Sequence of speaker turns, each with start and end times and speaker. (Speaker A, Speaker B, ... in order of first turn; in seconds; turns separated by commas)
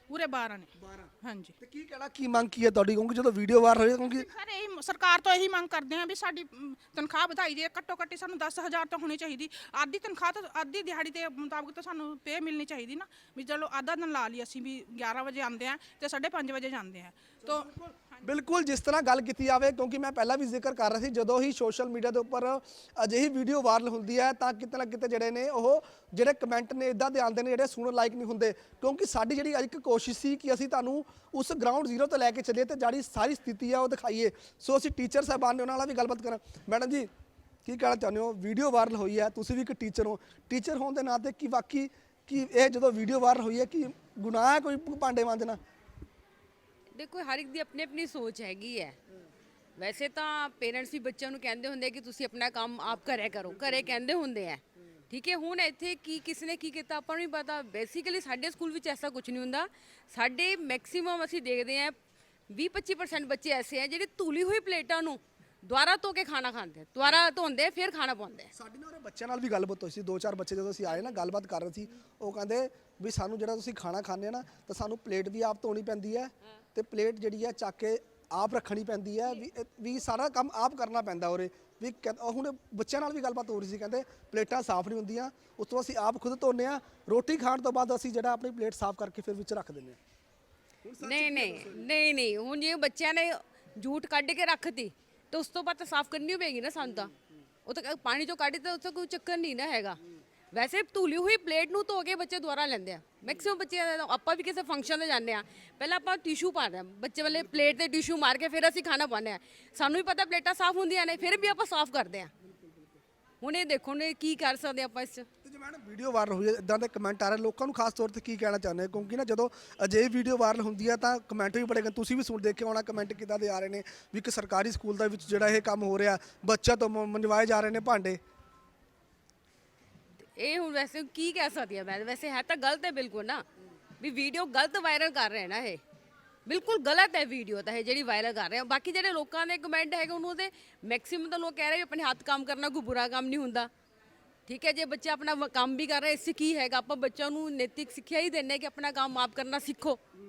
Speaker A: 0.1-1.6, Speaker B: 0.8-4.3, Speaker A: 4.0-18.3, Speaker B: 17.4-37.1, Speaker B: 37.6-45.6, Speaker C: 46.9-49.0, Speaker C: 49.8-62.0, Speaker C: 62.5-68.5, Speaker B: 68.5-90.0, Speaker C: 70.9-71.3, Speaker B: 90.8-91.8, Speaker C: 91.0-97.1, Speaker C: 97.7-100.0, Speaker C: 100.5-112.3, Speaker B: 107.3-107.8, Speaker B: 112.4-113.0, Speaker C: 113.4-115.3, Speaker B: 115.4-128.2, Speaker C: 130.3-133.5, Speaker C: 134.0-135.8, Speaker C: 136.5-143.7, Speaker C: 144.5-150.0